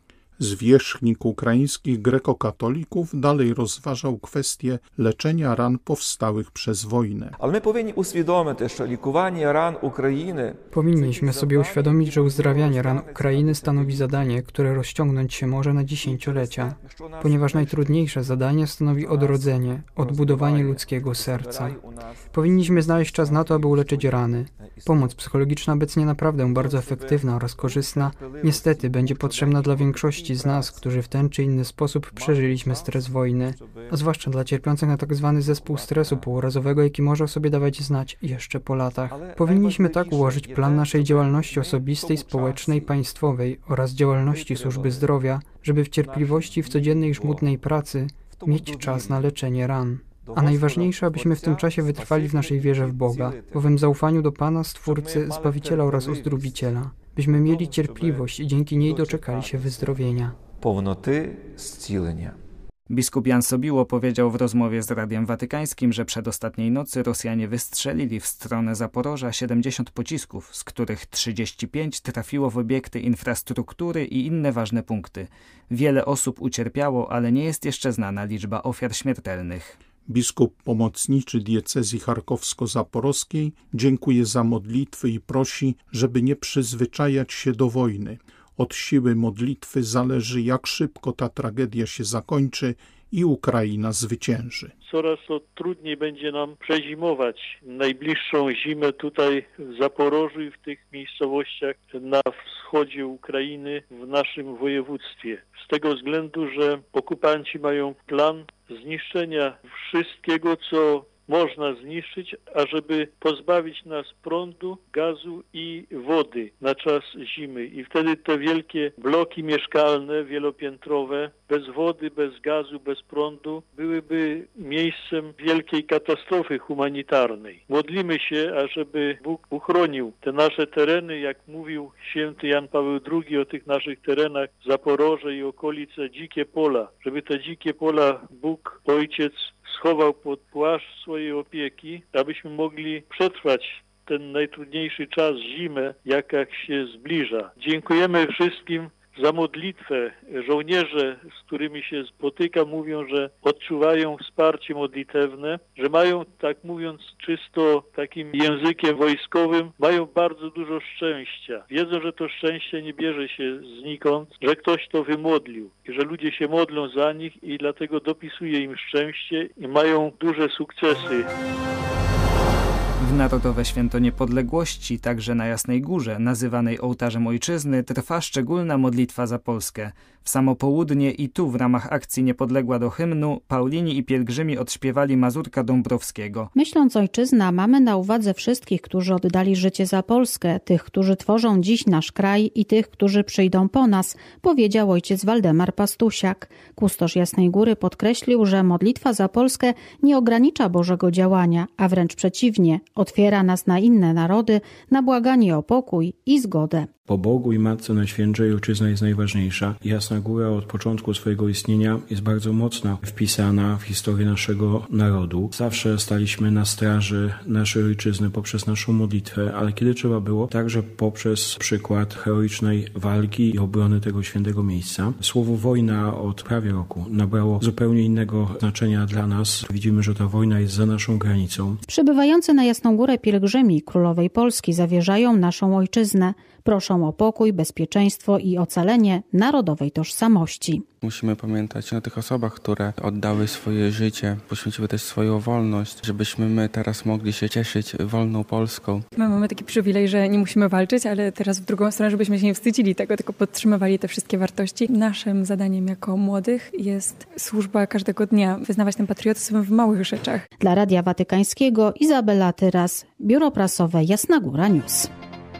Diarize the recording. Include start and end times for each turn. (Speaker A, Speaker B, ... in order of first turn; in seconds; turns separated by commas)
Speaker A: 0.4-7.3, Speaker B: 7.4-14.2, Speaker C: 10.7-60.4, Speaker B: 16.0-18.3, Speaker B: 18.9-25.2, Speaker B: 26.4-31.0, Speaker B: 32.1-34.5, Speaker B: 35.4-36.4, Speaker B: 39.1-43.0, Speaker B: 44.2-45.1, Speaker B: 46.0-47.5, Speaker B: 48.3-49.4, Speaker B: 50.2-54.0, Speaker B: 54.8-56.7, Speaker B: 57.4-62.4, Speaker D: 62.9-79.7, Speaker A: 80.0-94.7, Speaker E: 94.9-171.3, Speaker D: 173.0-186.5, Speaker F: 186.5-206.9, Speaker G: 207.1-231.8, Speaker F: 231.8-240.8, Speaker H: 241.1-249.0, Speaker I: 249.2-260.4, Speaker F: 260.6-265.1